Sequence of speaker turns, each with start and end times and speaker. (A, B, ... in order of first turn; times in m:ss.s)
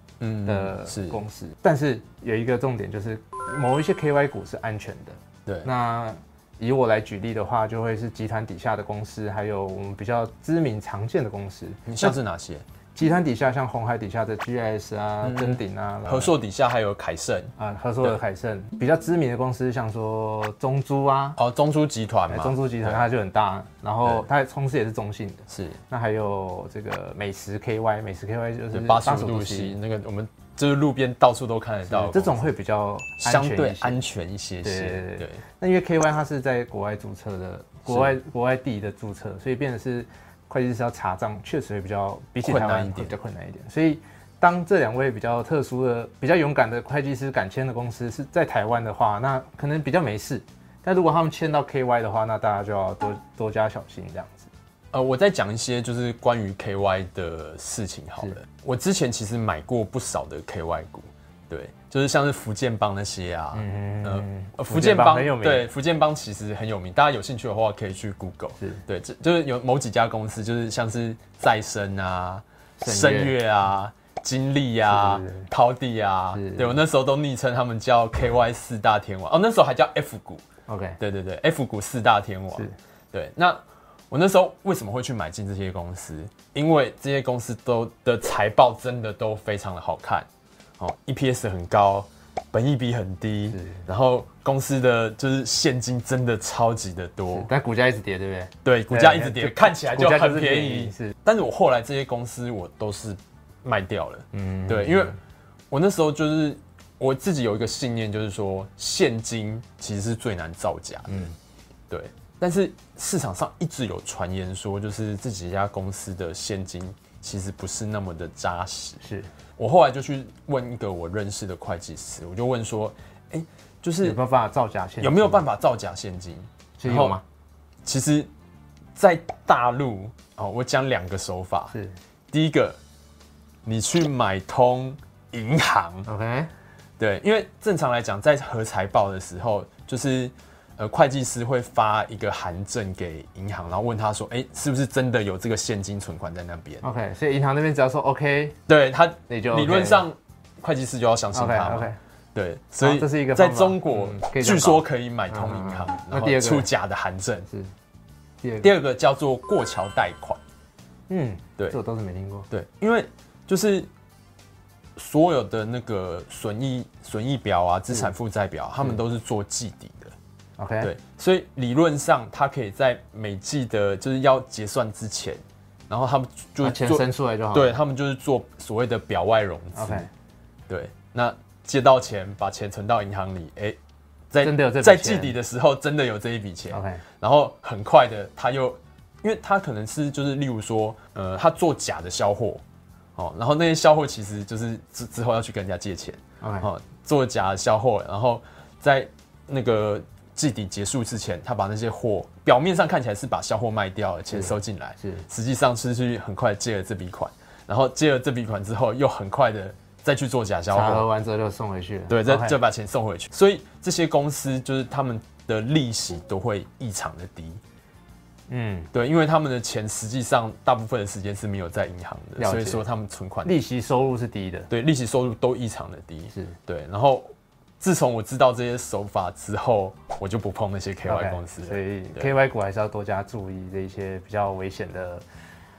0:00.2-0:01.2 A
0:00.5-0:12.2 B
0:11.9-0:12.6 A
0:13.0-0:16.3 B
0:15.2-0:18.2 A
0:17.6-0:21.4 B
0:21.4-0:23.0 A
0:22.3-0:29.8 B
0:25.5-0:25.8 A
0:28.7-0:32.5 A
0:31.9-0:34.0 B
0:33.2-0:35.4 A
0:34.6-0:54.5 B
0:37.9-0:38.1 A
0:42.4-0:43.1 A
0:54.9-1:20.4 A
1:03.5-1:05.7 B
1:12.8-1:13.4 B
1:14.9-1:15.5 B
1:16.3-1:16.8 B
1:20.7-1:21.0 B
1:21.0-1:30.3 A
1:30.8-1:37.5 A
1:33.5-1:33.8 B
1:37.3-1:41.1 B
1:38.6-1:45.2 A
1:44.3-1:45.2 B
1:45.7-1:51.3 A
1:51.1-1:51.3 B
1:51.9-1:59.0 A
1:59.0-1:59.3 B
1:59.6-2:04.2 A
2:04.0-2:05.4 B
2:05.0-2:07.2 A
2:06.8-2:07.2 B
2:07.8-2:08.3 A
2:09.0-2:11.8 A
2:11.7-2:12.0 B
2:12.3-2:12.8 A
2:13.7-2:16.1 A
2:16.1-2:16.5 B
2:17.0-2:26.8 A
2:26.8-2:28.6 B
2:28.7-2:37.5 A
2:29.3-2:30.0 B
2:31.3-2:32.0 B
2:32.8-2:36.7 B
2:38.4-2:38.7 B
2:38.6-2:40.4 A
2:41.1-2:42.5 B
2:42.5-2:43.9 A
2:45.0-2:50.2 A
2:50.6-2:50.9 B
2:50.8-3:00.1 A
2:56.6-2:57.8 B
2:59.8-3:00.1 B
3:00.7-3:03.8 A
3:04.3-3:12.6 A
3:04.4-3:05.4 B
3:06.7-3:07.0 B
3:13.2-3:31.1 A
3:16.4-3:16.7 B
3:24.3-3:25.3 B
3:30.7-3:32.6 B
3:32.1-3:37.6 A
3:38.5-3:38.9 B
3:38.9-3:43.5 A
3:42.4-3:42.8 B
3:43.4-3:44.7 B
3:44.7-3:52.3 A
3:51.0-3:55.2 B